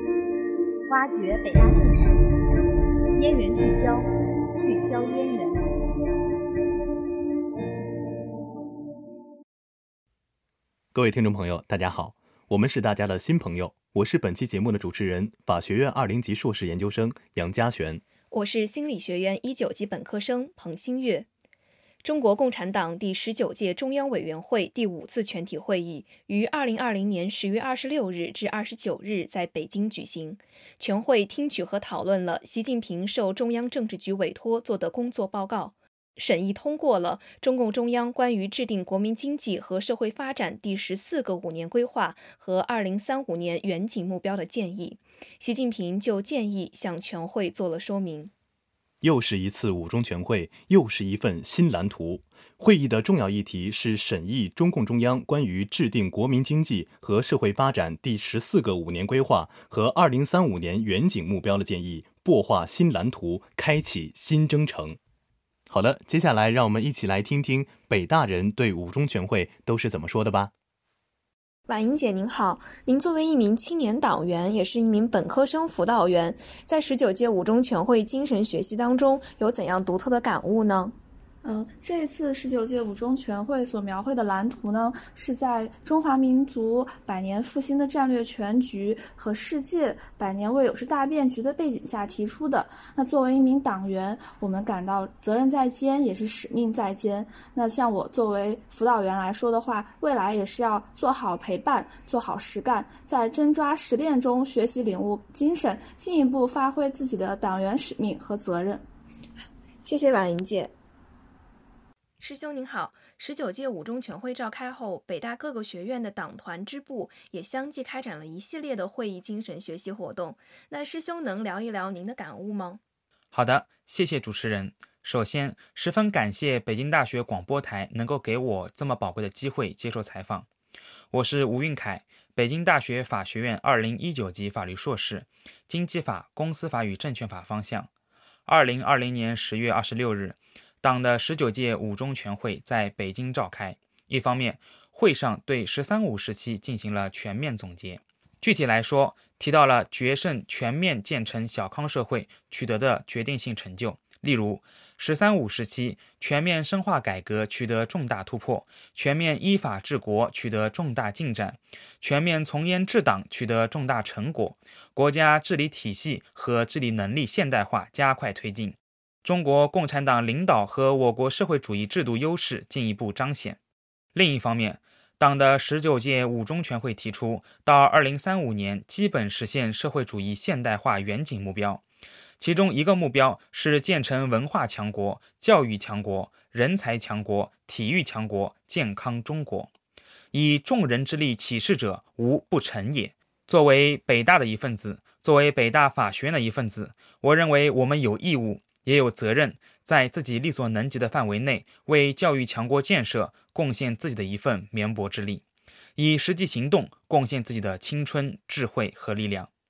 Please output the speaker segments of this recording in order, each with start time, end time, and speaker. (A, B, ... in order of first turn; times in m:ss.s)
0:00.9-0:02.2 A
0:03.1-0:05.7 A
0:10.9-0:18.0 B
0:18.3-0:21.2 C
0:22.0-0:48.3 C
0:49.0-1:05.0 B
1:05.7-1:10.5 B
1:11.7-1:20.9 C
1:21.4-1:48.8 D
1:49.8-1:50.7 C
1:52.2-2:02.8 C
2:03.3-2:10.5 E
2:11.1-2:17.9 E
2:18.4-2:53.6 E
2:54.1-3:01.8 E
3:02.4-3:09.7 E
3:10.3-3:25.4 E
3:26.0-3:29.5 E